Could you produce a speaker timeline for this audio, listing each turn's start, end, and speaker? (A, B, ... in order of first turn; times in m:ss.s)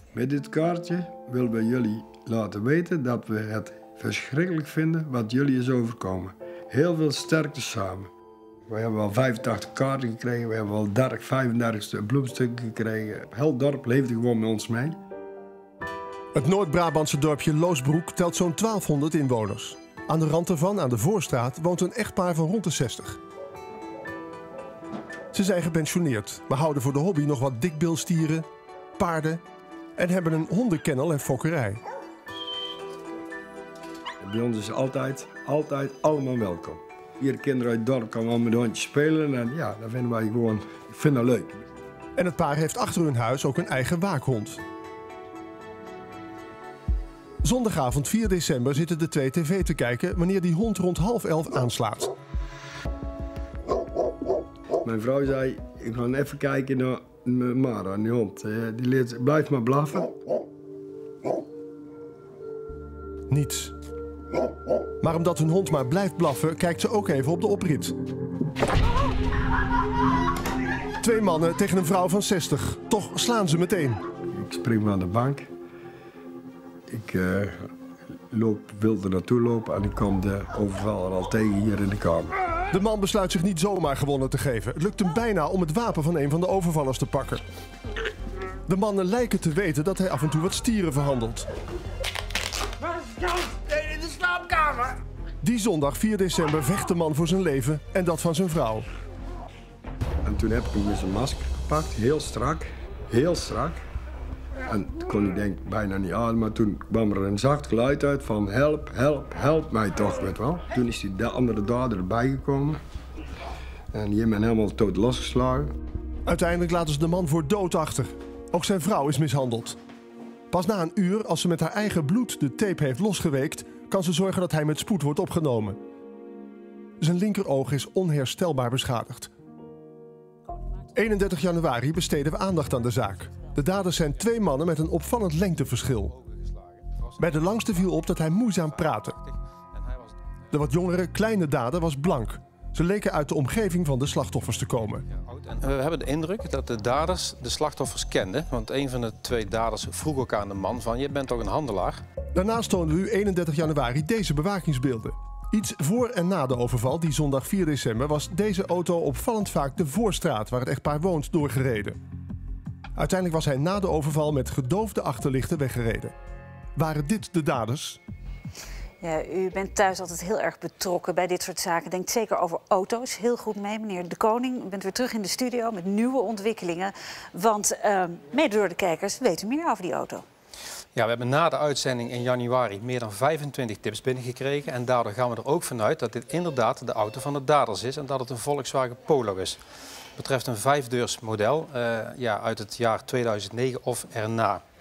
0:00.1-0:08.1 A
0:08.7-0:15.0 A
0:16.4-0:23.2 B
0:25.3-0:28.5 B
0:29.0-0:29.4 B
0:30.0-0:31.8 B
0:34.2-0:41.6 A
0:42.2-0:44.6 B
0:47.4-0:52.1 B
0:54.8-1:00.2 A
1:03.3-1:03.7 B
1:05.0-1:08.0 B
1:11.0-1:14.0 B
1:14.3-1:15.5 A
1:16.9-1:17.6 A
1:18.3-1:22.4 A
1:22.7-1:27.4 B
1:28.7-1:31.5 B
1:33.7-1:34.9 A
1:35.4-1:38.9 B
1:40.2-1:43.8 A
1:44.7-1:52.8 A
1:53.9-1:55.7 A
1:56.3-1:59.8 B
2:00.5-2:05.8 B
2:07.0-2:09.3 B
2:11.0-2:16.2 B
2:16.1-2:20.2 C
2:17.2-2:19.2 B
2:20.5-2:25.0 B
2:25.1-2:32.0 C
2:32.3-2:42.0 B
2:43.0-2:46.1 B
2:46.8-2:48.0 B
2:49.0-3:00.2 D
3:01.0-3:09.6 C
3:10.2-3:14.6 C